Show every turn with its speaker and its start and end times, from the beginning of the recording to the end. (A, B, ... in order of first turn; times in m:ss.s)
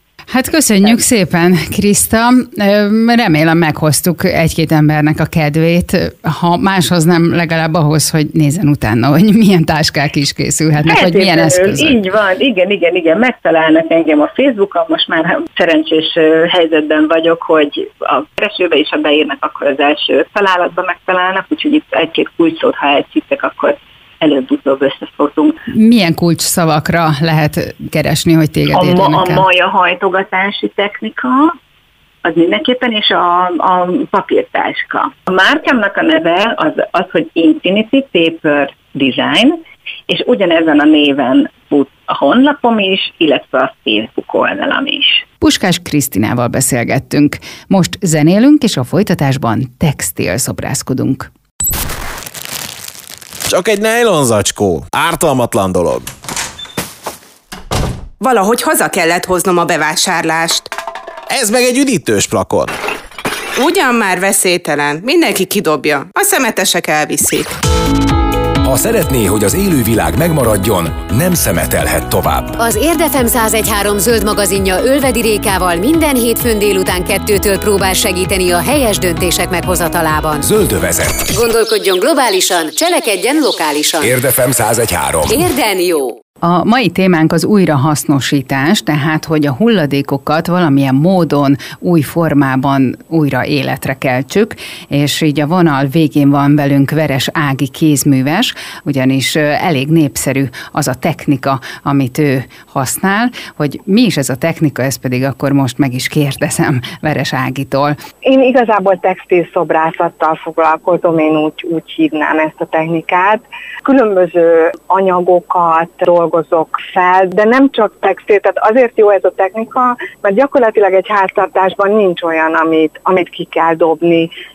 0:00.3-0:12.0 A
0:10.9-0:25.6 B
0:25.7-0:29.4 A
0:28.7-0:31.6 B
0:32.2-0:45.2 B
0:45.4-0:51.3 A
0:53.5-0:56.1 C
0:58.2-1:00.7 D
1:01.3-1:02.7 C
1:03.6-1:07.5 D
1:08.6-1:12.6 E
1:12.6-1:20.5 F
1:20.4-1:21.2 E
1:21.3-1:24.2 F
1:24.0-1:25.4 E
1:25.3-1:26.2 F
1:26.4-1:48.0 A
1:48.2-2:04.3 G